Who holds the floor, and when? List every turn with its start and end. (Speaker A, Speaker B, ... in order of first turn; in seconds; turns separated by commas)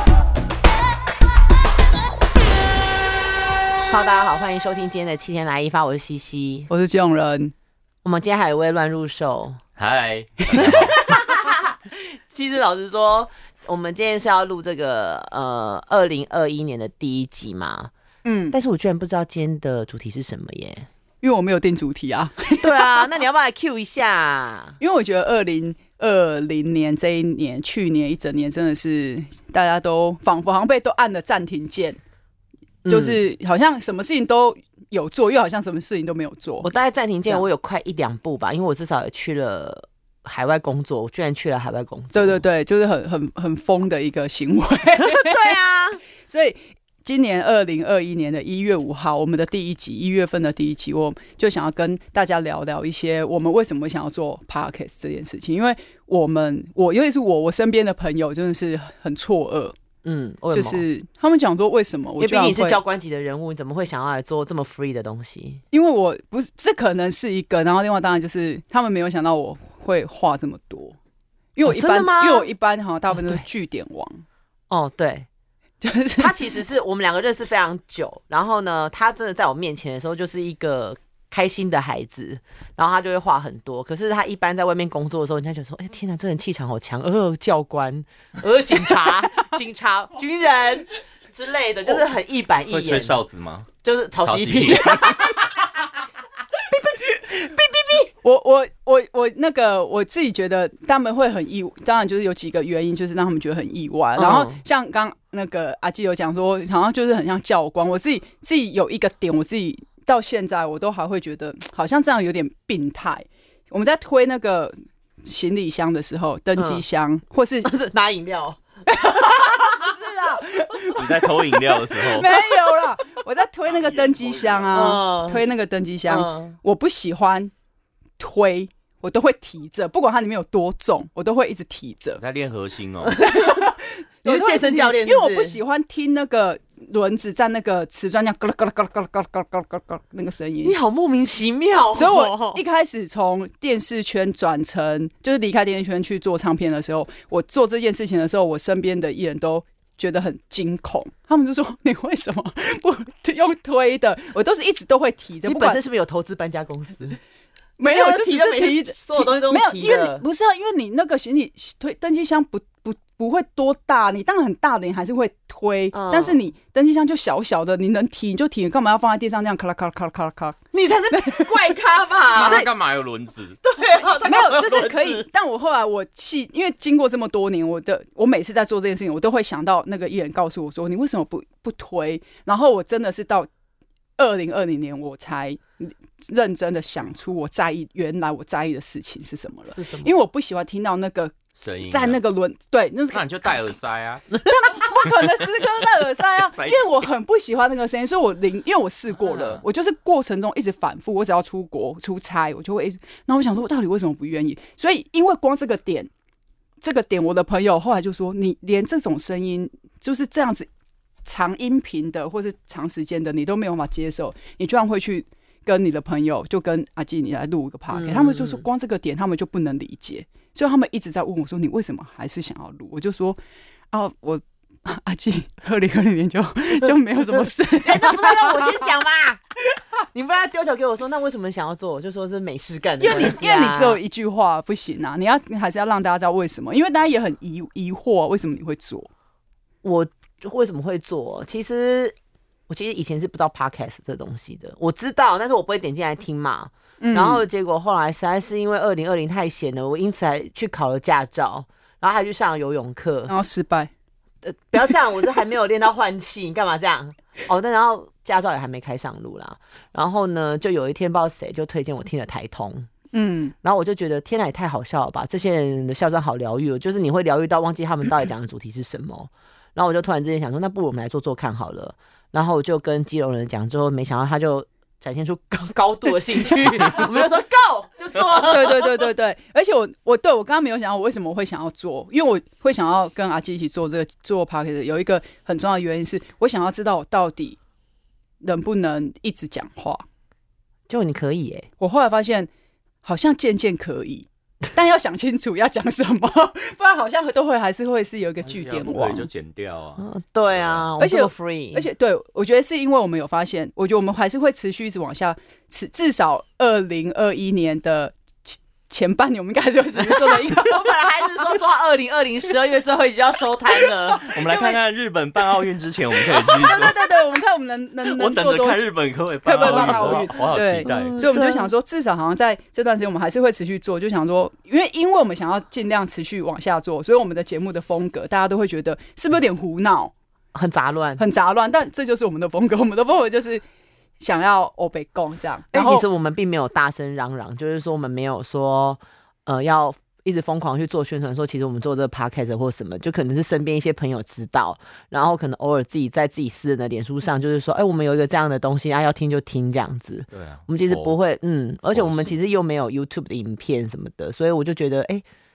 Speaker A: 3.9-6.7, Speaker B: 6.7-7.5, Speaker A: 8.0-9.6, Speaker C: 9.8-11.0, Speaker A: 10.6-17.9, Speaker B: 18.2-18.6, Speaker A: 18.5-20.9, Speaker B: 21.2-23.1, Speaker A: 22.6-24.8, Speaker B: 24.8-32.0, Speaker A: 32.8-33.2, Speaker B: 32.9-36.7, Speaker A: 36.6-42.4, Speaker B: 42.1-45.5, Speaker A: 45.0-46.0, Speaker B: 46.3-59.7, Speaker A: 60.0-60.8, Speaker B: 60.5-62.8, Speaker A: 62.2-65.6, Speaker B: 65.7-71.0, Speaker B: 71.5-74.2, Speaker A: 71.6-72.5, Speaker A: 73.1-73.4, Speaker A: 74.7-75.3, Speaker B: 75.8-76.4, Speaker A: 76.2-93.2, Speaker C: 92.7-93.7, Speaker A: 93.8-95.5, Speaker C: 94.2-95.1, Speaker A: 97.4-98.0, Speaker B: 98.1-117.7, Speaker A: 104.2-104.6, Speaker A: 116.5-116.8, Speaker A: 117.6-118.6, Speaker B: 118.9-127.5, Speaker C: 120.9-122.3, Speaker C: 123.7-125.0, Speaker A: 124.7-125.4, Speaker A: 126.1-126.6, Speaker B: 128.2-132.2, Speaker C: 132.2-133.2, Speaker A: 133.0-133.6, Speaker B: 133.2-140.8, Speaker A: 134.2-135.6, Speaker A: 140.6-142.6, Speaker B: 141.9-155.8, Speaker A: 155.4-157.2, Speaker B: 157.8-170.6, Speaker A: 157.8-160.2, Speaker A: 165.9-166.4, Speaker A: 170.7-172.7, Speaker B: 171.1-171.6, Speaker C: 172.3-173.6, Speaker B: 172.3-172.7, Speaker A: 173.6-175.2, Speaker B: 174.2-183.5, Speaker B: 184.2-193.7, Speaker A: 189.7-190.2, Speaker C: 191.6-192.2, Speaker C: 193.1-194.4, Speaker B: 194.4-206.1, Speaker C: 195.0-195.3, Speaker C: 196.4-197.0, Speaker C: 199.2-199.6, Speaker B: 206.8-210.7, Speaker B: 211.2-223.4, Speaker A: 217.9-218.6, Speaker B: 223.9-228.7, Speaker A: 227.8-229.4, Speaker A: 230.0-234.0, Speaker B: 233.0-239.1, Speaker A: 239.8-242.1, Speaker A: 242.7-253.3, Speaker B: 247.0-247.4, Speaker B: 253.3-253.9, Speaker A: 254.4-262.9, Speaker B: 263.1-263.5, Speaker A: 263.6-279.1, Speaker B: 278.4-287.6, Speaker B: 288.4-290.0, Speaker A: 290.9-291.7, Speaker B: 291.8-292.5, Speaker B: 293.0-299.3, Speaker C: 298.5-300.9, Speaker A: 300.0-301.9, Speaker B: 301.0-310.9, Speaker A: 310.0-314.3, Speaker B: 313.8-314.8, Speaker C: 314.2-317.2, Speaker B: 316.4-318.8, Speaker C: 318.0-321.2, Speaker B: 319.4-330.1, Speaker A: 319.6-321.7, Speaker A: 330.5-331.2, Speaker B: 331.2-333.6, Speaker B: 334.2-336.1, Speaker A: 335.7-355.2, Speaker C: 350.3-351.1, Speaker C: 351.9-352.3